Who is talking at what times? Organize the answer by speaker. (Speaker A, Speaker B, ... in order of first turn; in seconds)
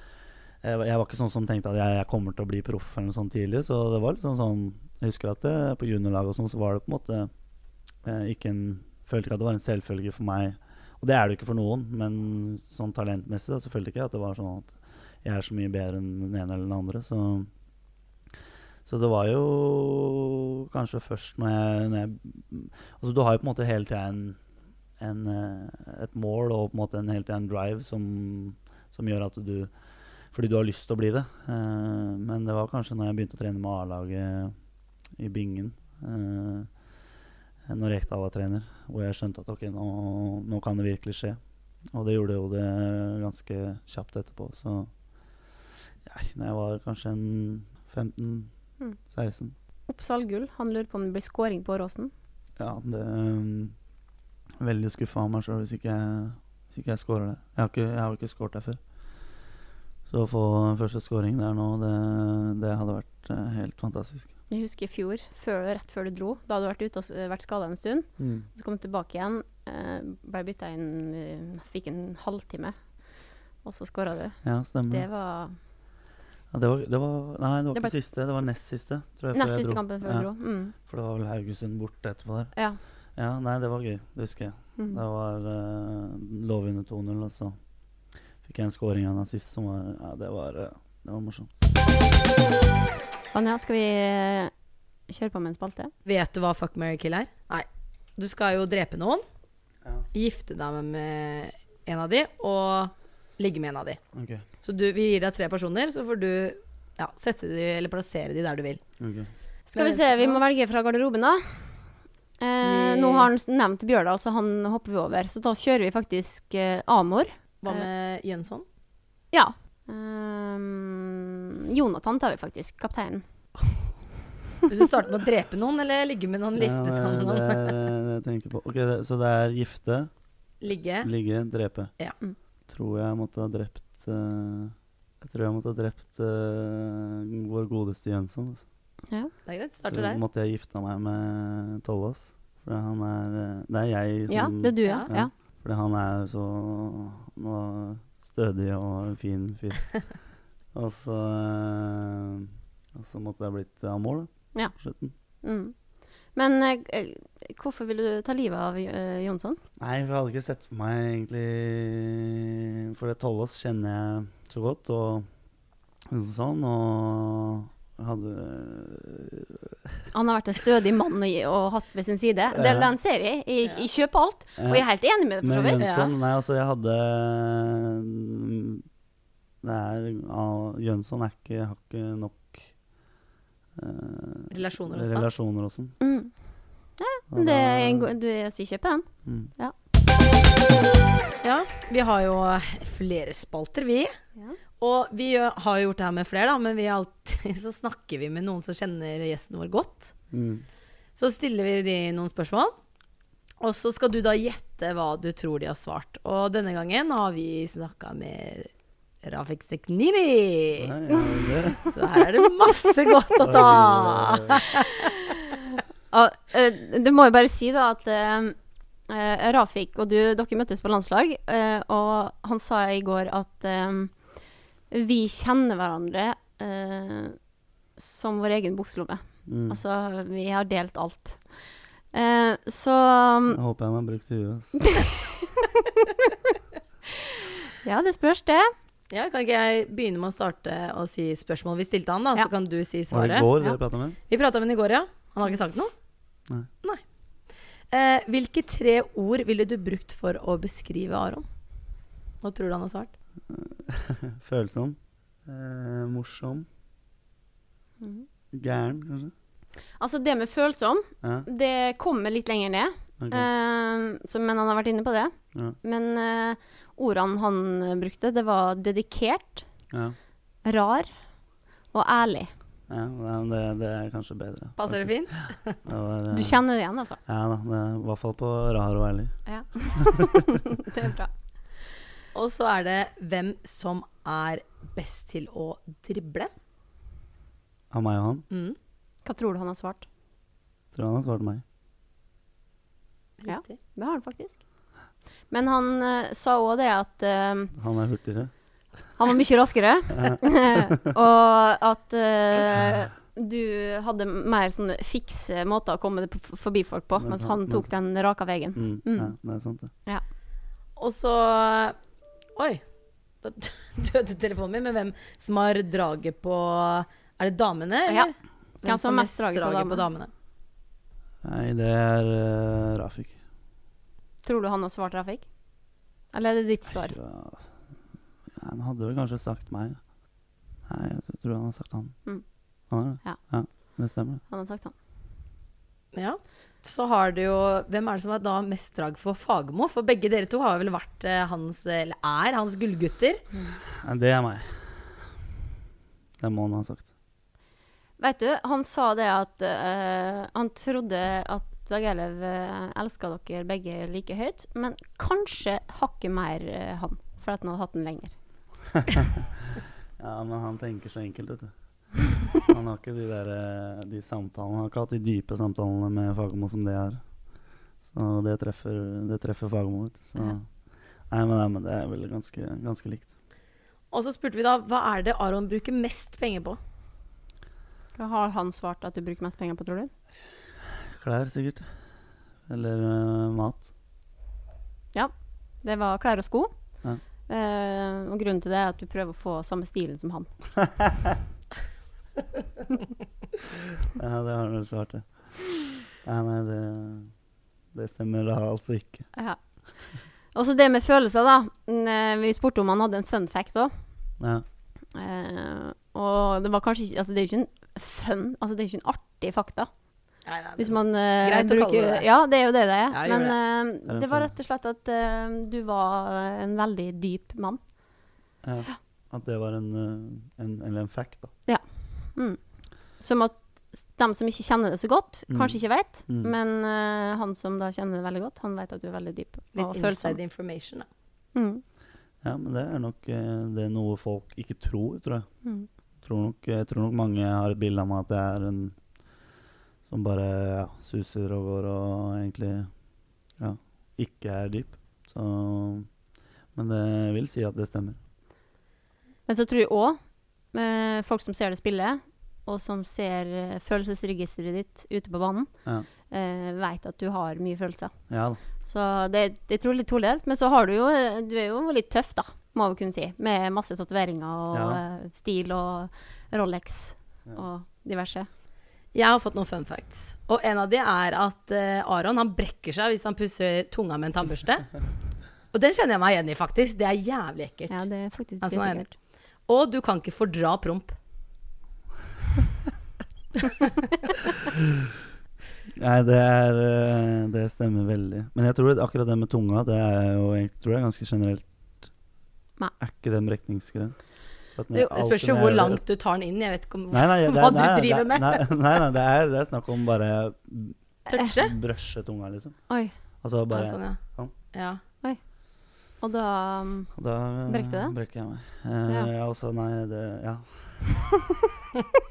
Speaker A: 0.6-7.3, 8.0-17.5, 18.9-24.4, 25.0-34.6, 35.1-36.8, 37.7-49.5, 52.6-53.8, 54.6-58.9, 60.1-64.3, 68.2-68.5, 74.4-75.1, 76.5-87.7, 88.4-91.6, 104.1-104.4, 109.0-109.3, 126.6-130.1, 131.0-131.9, 132.7-138.7, 139.8-155.2, 159.8-165.3, 166.1-170.1, 172.5-173.0, 174.6-178.9, 179.6-182.8, 183.8-186.0, 187.3-188.2, 189.2-189.5, 200.3-200.7, 210.8-211.9, 213.4-214.6, 229.4-229.8, 233.5-234.9, 243.1-244.2, 253.5-256.7, 258.5-259.3, 261.2-261.5, 263.2-263.5, 269.9-270.2, 272.9-276.6, 277.2-280.1, 287.9-288.4, 290.9-291.6, 297.7-299.1, 307.2-307.9, 308.8-309.9, 321.4-323.4, 326.9-330.1, 330.8-334.4, 344.0-345.5, 346.4-347.1, 360.2-373.3, 381.1-381.9, 382.7-383.9, 394.1-397.4, 397.9-399.3, 404.4-404.6, 414.1-414.6, 418.6-421.6, 425.5-426.5, 432.4-435.6, 436.2-439.0, 440.1-443.0, 443.6-446.2, 446.7-448.2, 458.3-458.6, 464.7-465.0, 486.0-492.1, 493.0-496.0, 497.1-504.5, 507.1-511.4
Speaker B: 49.9-52.1, 64.5-75.6, 79.3-80.7, 82.5-82.8, 93.3-94.5, 95.1-95.9, 109.7-117.9, 119.3-123.5, 144.3-145.3, 154.5-159.6, 170.1-175.8, 186.0-189.8, 216.1-233.6, 235.0-235.7, 237.8-238.7, 258.0-258.3, 260.0-269.7, 270.6-271.1, 271.9-272.5, 276.3-277.2, 279.5-281.7, 289.2-290.1, 293.4-294.7, 295.5-297.7, 299.2-309.4, 318.1-320.1, 324.4-325.5, 326.3-327.2, 332.2-334.0, 334.5-334.9, 343.5-343.8, 348.2-358.4, 378.1-380.1, 385.1-390.8, 399.3-404.1, 405.1-418.3, 421.7-430.4, 431.6-431.8, 435.6-435.9, 449.5-468.5, 477.9-479.1, 502.9-503.1, 505.2-508.2
Speaker C: 96.0-99.2, 100.1-104.1, 104.6-109.0, 109.7-110.4, 112.6-113.3, 117.6-118.7, 124.7-127.8, 130.6-131.1, 139.5-140.2, 175.8-176.1, 184.5-185.3, 191.4-194.2, 194.8-200.2, 201.2-202.7, 203.6-208.7, 209.2-210.9, 211.9-214.9, 239.1-243.5, 244.3-245.9, 247.9-251.5, 252.4-253.1, 274.8-275.8, 282.3-286.5, 288.5-288.8, 293.4-293.8, 311.0-312.0, 312.6-312.9, 313.4-320.3, 336.1-343.5, 374.1-376.8, 410.4-413.6, 429.7-431.1, 469.1-481.2, 494.9-498.8, 501.2-501.8, 503.7-505.0